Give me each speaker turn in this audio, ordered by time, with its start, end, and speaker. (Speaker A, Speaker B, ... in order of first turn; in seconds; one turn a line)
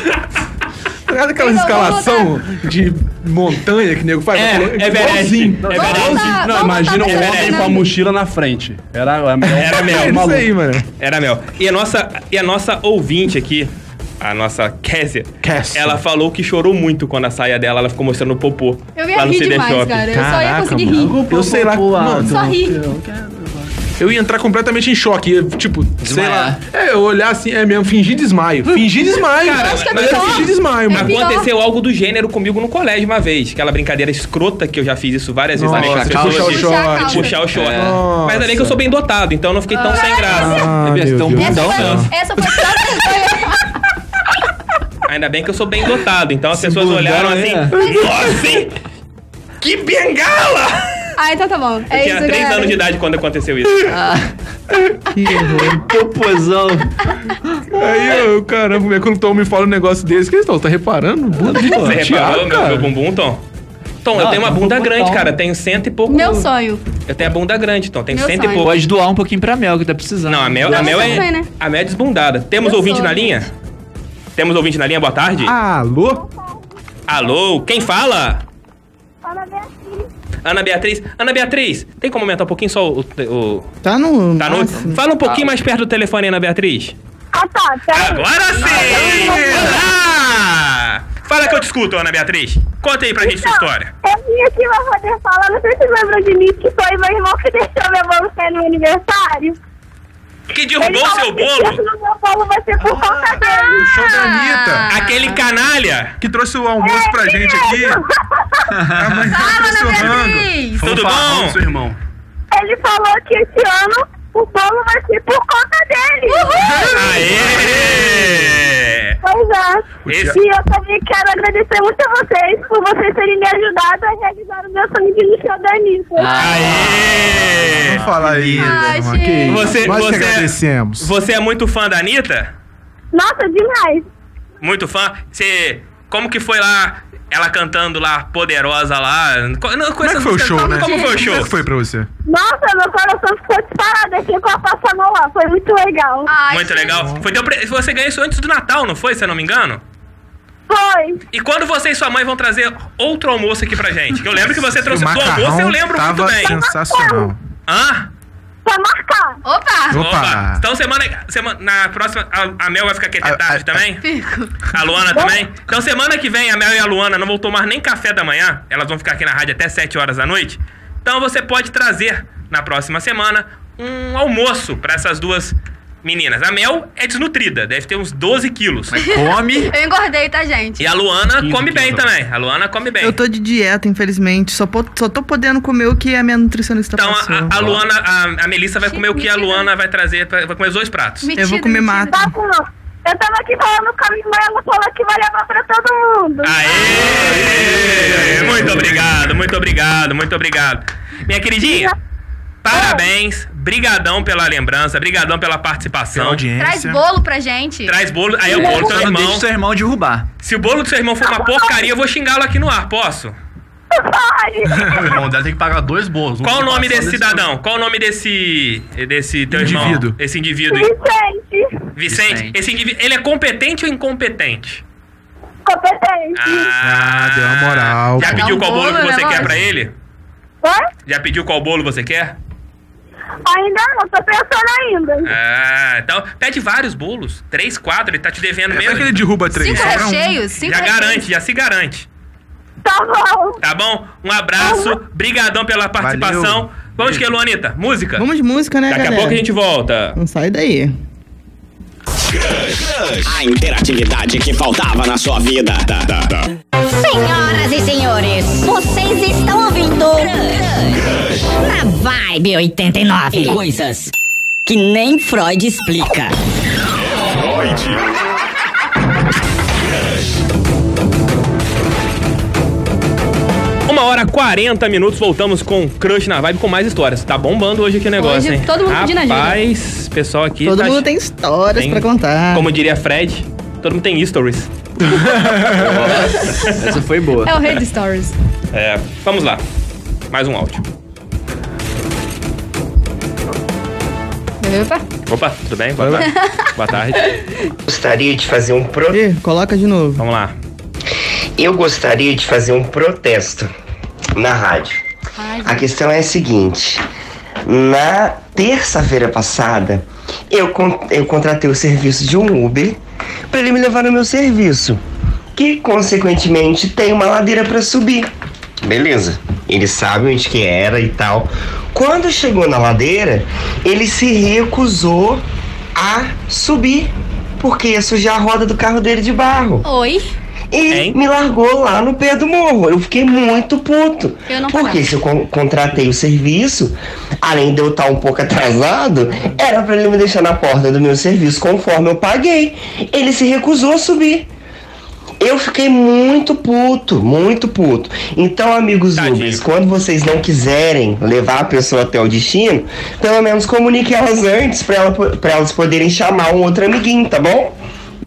Speaker A: 1.1-6.0
Speaker B: 1.4-2.4
Speaker C: 4.3-7.8
Speaker D: 5.6-10.5
Speaker B: 5.8-7.9
Speaker C: 9.5-10.2
Speaker A: 9.7-10.9
Speaker C: 11.0-20.1
Speaker A: 15.4-16.0
Speaker B: 19.0-21.2
Speaker A: 20.1-22.4
Speaker D: 20.9-23.9
Speaker B: 22.2-22.8
Speaker A: 24.0-31.2
Speaker E: 26.0-26.6
Speaker C: 29.3-40.8
Speaker B: 29.4-31.5
Speaker A: 35.6-38.8
Speaker E: 35.6-36.7
Speaker B: 36.4-37.4
Speaker E: 37.5-38.0
Speaker B: 39.7-40.7
Speaker A: 40.3-42.1
Speaker E: 40.7-42.1
Speaker B: 41.4-43.6
Speaker C: 45.1-48.8
Speaker E: 46.6-47.7
Speaker A: 47.8-48.3
Speaker C: 49.6-51.1
Speaker B: 51.2-52.8
Speaker C: 51.9-54.0
Speaker E: 53.9-54.3
Speaker F: 55.1-55.8
Speaker E: 55.8-56.9
Speaker A: 57.7-62.9
Speaker C: 61.6-63.4
Speaker C: 64.0-66.5
Speaker E: 64.1-65.3
Speaker B: 66.1-66.8
Speaker C: 67.1-68.7
Speaker B: 68.1-68.7
Speaker E: 68.6-71.2
Speaker C: 70.3-73.5
Speaker B: 70.7-71.5
Speaker B: 72.6-73.5
Speaker C: 74.4-75.5
Speaker A: 75.4-76.2
Speaker G: 76.1-76.7
Speaker C: 77.1-78.5
Speaker G: 79.2-80.1
Speaker C: 80.4-83.7
Speaker F: 83.8-85.0
Speaker C: 84.4-87.0
Speaker G: 87.3-89.9
Speaker C: 87.9-93.9
Speaker G: 93.2-99.6
Speaker C: 100.5-101.8
Speaker G: 100.8-104.0
Speaker A: 102.8-104.9
Speaker B: 103.4-105.4
Speaker C: 104.9-106.2
Speaker A: 106.2-108.0
Speaker G: 106.8-108.7
Speaker E: 108.8-109.1
Speaker A: 108.9-110.5
Speaker B: 109.3-110.8
Speaker D: 110.8-112.0
Speaker C: 110.8-111.6
Speaker G: 112.5-116.9
Speaker B: 116.3-117.2
Speaker A: 116.6-118.7
Speaker C: 116.9-119.2
Speaker G: 119.2-126.7
Speaker A: 120.0-120.4
Speaker C: 120.1-120.4
Speaker E: 126.2-128.9
Speaker C: 126.4-128.0
Speaker A: 127.8-131.1
Speaker B: 128.6-129.7
Speaker C: 129.5-132.5
Speaker G: 133.1-134.1
Speaker C: 134.6-141.6
Speaker A: 140.0-142.1
Speaker B: 140.6-141.2
Speaker G: 142.3-146.3
Speaker B: 146.3-147.0
Speaker C: 146.5-149.8
Speaker A: 146.9-147.2
Speaker G: 150.7-151.2
Speaker C: 151.3-156.6
Speaker A: 154.5-157.4
Speaker G: 156.4-157.3
Speaker C: 157.7-158.1
Speaker G: 158.7-159.4
Speaker B: 159.4-160.0
Speaker A: 159.9-160.6
Speaker C: 159.9-164.0
Speaker A: 163.2-163.9
Speaker B: 164.0-164.5
Speaker C: 164.7-179.0
Speaker E: 178.9-179.7
Speaker B: 179.0-180.9
Speaker C: 180.8-183.2
Speaker D: 181.3-182.1
Speaker F: 183.0-187.6
Speaker C: 186.9-191.3
Speaker D: 187.5-187.8
Speaker B: 188.9-189.7
Speaker B: 191.2-192.2
Speaker F: 191.4-192.3
Speaker G: 192.1-197.2
Speaker C: 196.4-201.9
Speaker A: 197.1-199.2
Speaker D: 198.4-198.7
Speaker G: 201.6-201.9
Speaker C: 202.6-206.4
Speaker G: 202.7-203.1
Speaker A: 206.1-207.0
Speaker B: 206.6-207.9
Speaker C: 207.9-209.5
Speaker E: 208.5-210.3
Speaker C: 210.4-213.3
Speaker G: 211.2-211.9
Speaker G: 213.9-215.2
Speaker D: 215.0-217.5
Speaker C: 216.4-220.9
Speaker A: 219.5-220.2
Speaker G: 220.7-221.8
Speaker C: 221.9-224.8
Speaker E: 222.1-222.6
Speaker G: 225.7-226.7
Speaker C: 226.3-229.9
Speaker A: 226.8-228.4
Speaker B: 228.2-229.5
Speaker G: 230.6-230.9
Speaker C: 231.1-232.4
Speaker G: 233.5-235.3
Speaker C: 235.2-239.2
Speaker A: 238.7-240.4
Speaker B: 239.5-241.2
Speaker C: 239.7-242.1
Speaker G: 242.8-243.6
Speaker C: 243.6-248.3
Speaker G: 244.6-245.0
Speaker A: 246.0-246.7
Speaker F: 248.2-249.4
Speaker C: 248.9-250.2
Speaker F: 250.2-250.9
Speaker H: 252.3-256.4
Speaker I: 256.9-261.0
Speaker I: 261.6-264.1
Speaker I: 264.7-266.3
Speaker H: 267.4-267.9
Speaker C: 273.9-281.1
Speaker B: 278.2-279.6
Speaker F: 280.6-282.7
Speaker C: 281.7-284.7
Speaker A: 285.3-285.9
Speaker C: 285.6-286.9
Speaker E: 285.7-287.6
Speaker B: 287.4-288.4
Speaker C: 288.7-289.6
Speaker C: 290.3-290.9
Speaker B: 294.6-295.0
Speaker C: 295.3-297.4
Speaker A: 296.0-296.3
Speaker B: 296.2-296.5
Speaker J: 297.9-299.2
Speaker F: 299.1-300.2
Speaker C: 300.2-300.6
Speaker J: 301.6-303.7
Speaker J: 304.4-305.0
Speaker B: 305.4-305.9
Speaker J: 305.6-307.0
Speaker J: 307.7-313.0
Speaker J: 313.5-315.0
Speaker J: 315.6-318.3
Speaker J: 318.9-325.4
Speaker J: 326.0-329.9
Speaker B: 329.8-330.2
Speaker J: 330.7-344.5
Speaker C: 330.9-331.2
Speaker B: 334.5-335.1
Speaker J: 345.4-357.7
Speaker C: 349.2-349.6